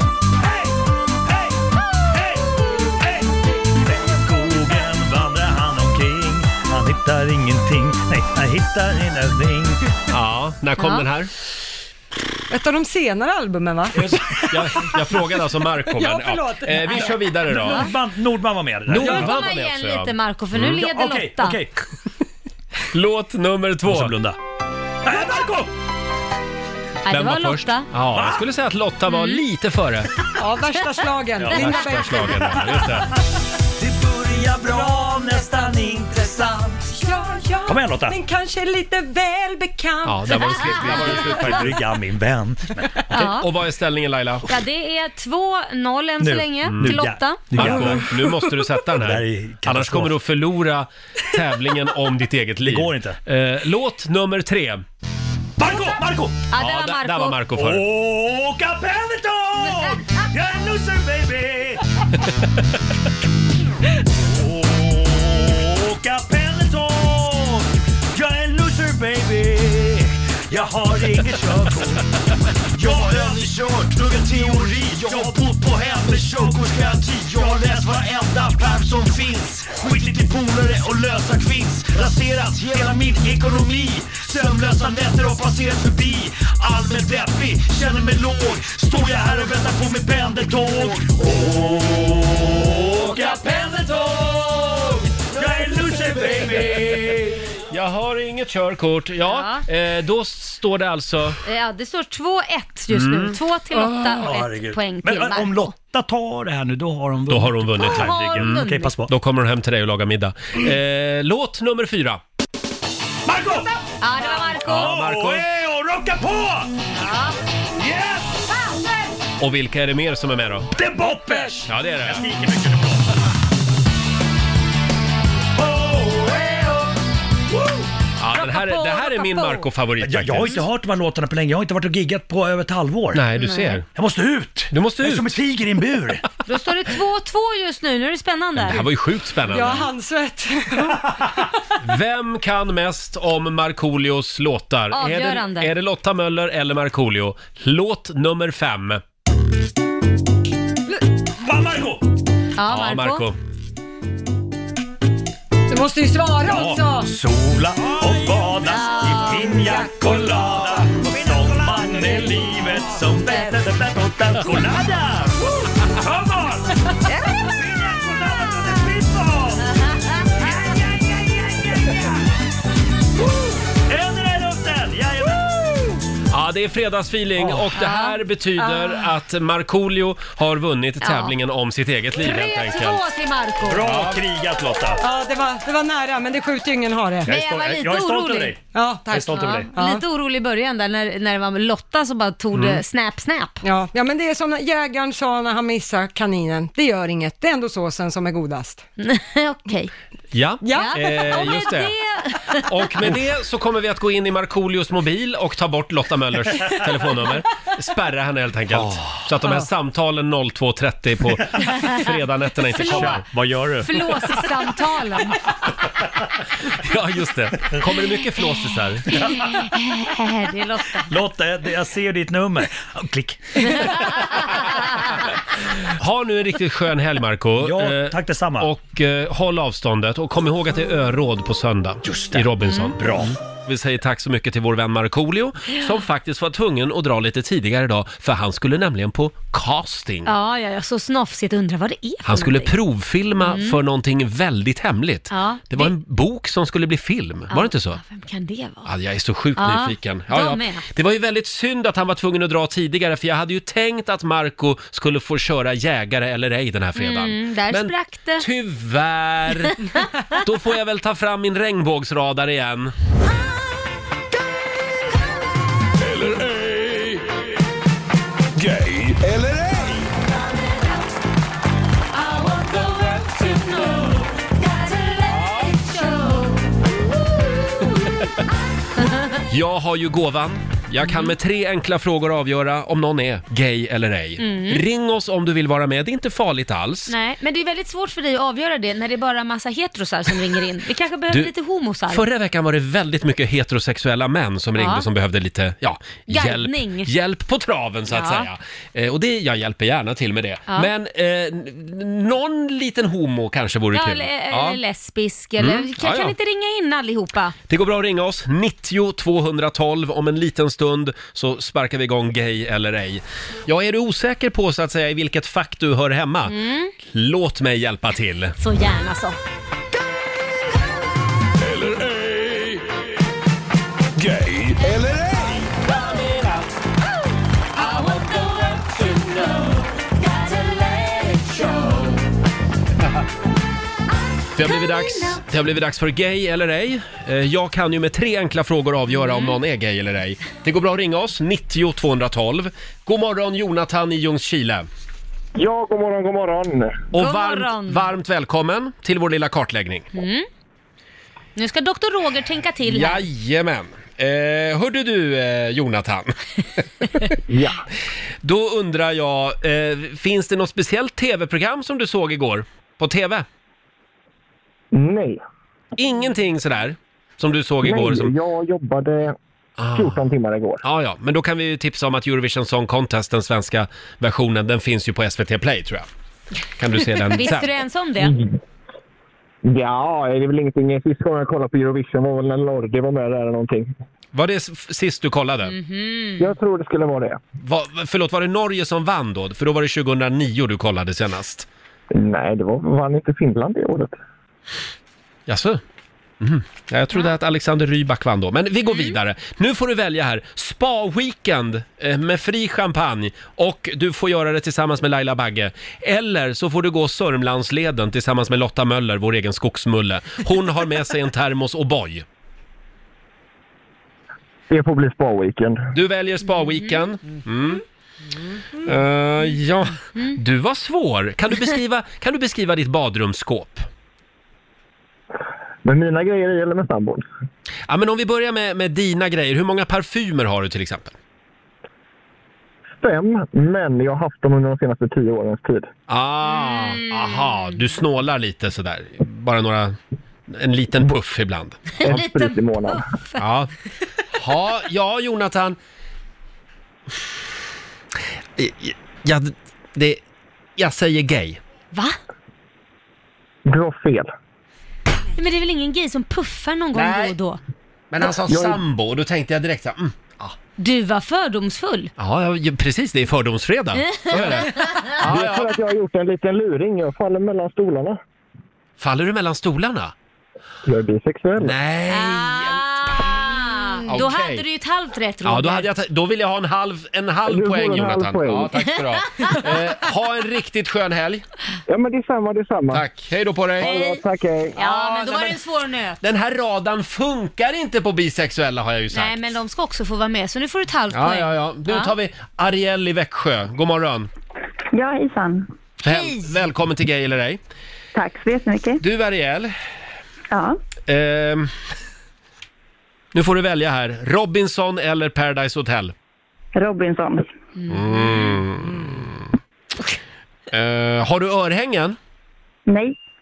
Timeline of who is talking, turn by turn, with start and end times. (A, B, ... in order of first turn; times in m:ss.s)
0:00.4-0:00.6 A
0:01.2-0:09.9 A
0:10.1-0:11.3 B
0:10.8-0:11.0 C
0:12.5-0:15.2 D
0:13.9-0:14.9 A
0:14.5-0:17.9 B
0:15.9-0:17.4 D
0:17.0-0:19.3 A
0:17.6-0:17.9 C
0:18.9-0:20.8 B
0:19.0-0:21.6 C
0:20.7-0:21.7 A
0:22.9-0:24.2 B
0:23.8-0:24.4 A
0:25.0-0:25.7 A
0:27.0-0:27.9 C
0:27.1-0:30.1 B
0:28.1-0:28.4 A
0:29.1-0:29.4 C
0:30.4-0:33.0 D
0:31.4-0:31.7 A
0:31.5-0:33.1 B
0:33.7-0:36.9 A
0:36.9-0:41.6 D
0:37.6-0:38.2 A
0:40.0-0:41.8 B
0:41.0-0:42.9 A
0:43.1-0:43.5 C
0:43.1-0:44.5 B
0:44.4-0:47.5 C
0:46.2-0:48.1 A
0:46.6-0:47.0 B
0:47.5-0:54.8 B
0:47.6-0:48.2 D
0:48.9-0:50.1 A
0:52.6-0:53.2 A
0:55.6-0:56.4 A
0:56.5-0:57.4 C
0:56.6-0:57.9 B
0:57.5-1:01.8 A
0:59.7-0:59.9 C
1:04.1-1:12.1 A
1:12.7-1:37.5 A
1:37.7-1:41.4 B
1:39.3-1:39.6 C
1:41.4-1:45.7 C
1:42.9-1:43.4 B
1:43.8-1:49.1 A
1:47.3-1:52.2 B
1:47.8-1:48.9 C
1:53.3-1:56.8 A
1:54.0-1:55.0 C
1:54.6-1:55.4 B
1:56.9-1:57.4 C
1:57.8-1:58.5 A
1:59.4-2:00.7 B
2:00.7-2:03.2 A
2:01.7-2:02.3 B
2:05.6-2:06.9 A
2:08.2-2:10.6 B
2:08.3-2:09.7 C
2:10.0-2:13.2 A
2:13.1-2:13.9 B
2:13.4-2:13.8 C
2:13.9-2:16.2 A
2:14.7-2:15.4 B
2:16.4-2:18.9 C
2:18.6-2:19.9 B
2:19.5-2:21.2 D
2:21.8-2:29.0 B
2:24.9-2:25.7 C
2:31.4-2:32.0 A
2:32.6-2:33.2 C
2:32.7-2:33.4 B
2:35.7-2:37.1 D
2:36.4-2:46.7 A
2:38.7-2:39.8 C
2:39.1-2:42.5 D
2:47.4-2:49.8 A
2:50.3-2:52.2 A
2:53.9-2:56.0 A
2:56.3-3:03.0 B
2:57.4-2:57.7 A
2:57.8-2:58.7 C
3:01.0-3:01.3 C
3:02.2-3:04.0 C
3:03.6-3:05.0 A
3:03.8-3:04.2 B
3:05.0-3:07.3 D
3:07.2-3:09.7 A
3:07.3-3:08.6 C
3:08.7-3:10.0 D
3:09.4-3:13.6 C
3:12.5-3:12.8 B
3:13.6-3:18.8 D
3:19.0-3:19.9 C
3:20.3-3:21.9 B
3:20.6-3:21.4 D
3:20.7-3:22.6 C
3:22.6-3:33.2 B
3:28.7-3:29.3 A
3:32.8-3:33.2 C
3:32.8-3:34.0 A
3:33.8-3:35.4 C
3:34.2-3:34.5 D
3:36.8-3:39.3 B
3:39.1-3:41.1 C
3:41.1-3:44.2 A
3:46.0-4:00.3 B
3:47.6-3:48.7 A
3:52.0-3:53.4 A
4:00.3-4:02.7 C
4:02.3-4:08.0 B
4:03.4-4:03.8 C
4:05.3-4:05.9 C
4:07.5-4:08.9 C
4:08.8-4:19.8 B
4:09.6-4:10.9 C
4:17.0-4:18.4 C
4:20.4-4:22.9 B
4:26.0-4:27.4 E
4:28.6-4:30.1 E
4:32.2-4:36.7 C
4:37.8-4:38.1 C
4:39.0-4:39.4 C
4:39.5-4:47.1 B
4:41.0-4:41.3 C
4:44.4-4:44.8 C
4:47.1-4:52.2 C
4:52.1-5:04.8 B
4:54.8-4:55.0 C
4:56.3-4:57.1 C
4:58.1-4:58.5 C
5:03.9-5:07.6 C
5:05.6-5:06.3 B
5:07.7-5:18.6 B
5:16.5-5:16.9 C
5:18.6-5:19.4 C
5:21.6-5:22.9 E
5:24.2-5:25.8 E
5:27.8-5:32.0 C
5:34.6-5:44.9 B
5:34.6-5:35.4 C
5:39.2-5:39.6 C
5:45.6-5:47.0 F
5:47.1-5:50.1 B
5:47.1-5:48.1 C
5:50.1-5:50.4 C
5:51.6-5:53.2 C
5:52.8-5:56.3 B
5:57.5-5:57.8 F
5:58.4-6:03.4 B
6:04.9-6:05.4 F
6:06.0-6:08.4 B
6:07.8-6:09.3 F
6:09.8-6:10.2 B
6:10.0-6:10.8 F
6:10.8-6:16.1 B
6:16.8-6:17.7 B
6:17.3-6:18.4 C
6:19.6-6:23.9 F
6:24.3-6:25.7 B
6:25.7-6:26.5 C
6:26.4-6:27.4 F
6:27.6-6:31.7 B
6:32.1-6:34.1 F
6:35.5-6:35.8 B
6:36.4-6:52.2 B
6:38.9-6:39.2 C
6:54.7-6:55.9 F
6:55.9-6:57.8 B
6:58.8-7:03.9 B
7:05.8-7:07.2 F
7:07.9-7:11.1 B
7:13.0-7:15.9 F
7:16.1-7:20.0 B
7:16.4-7:17.8 C
7:20.5-7:22.2 B
7:22.0-7:23.4 C
7:22.0-7:23.0 F
7:23.4-7:23.7 B
7:24.3-7:25.8 B
7:28.6-7:30.2 B
7:30.8-7:31.6 B
7:33.6-7:34.3 F
7:35.4-7:37.6 C
7:36.9-7:37.3 B
7:38.1-7:40.6 B
7:38.4-7:38.8 F
7:40.8-7:42.1 C
7:42.2-7:45.7 B
7:44.0-7:45.1 C
7:45.2-7:48.2 F
7:49.0-7:50.1 B
7:50.8-7:51.8 F
7:51.6-7:52.8 B
7:52.1-7:55.9 C
7:54.1-7:54.6 B
7:55.4-8:01.4 B
7:57.4-7:58.7 F
7:59.3-7:59.6 C
8:01.9-8:03.1 F
8:02.9-8:04.0 B
8:03.8-8:04.8 F
8:03.8-8:04.2 C
8:04.8-8:06.2 C
8:04.8-8:05.6 B
8:06.2-8:09.3 B
8:09.1-8:12.1 C
8:11.1-8:14.3 B
8:15.0-8:15.6 G
8:16.0-8:17.6 B
8:16.0-8:16.5 C
8:18.2-8:18.9 G
8:19.0-8:19.7 B
8:21.1-8:21.7 B
8:23.3-8:26.1 B
8:26.8-8:27.4 G
8:27.8-8:28.6 C
8:27.9-8:29.4 B
8:30.7-8:32.2 B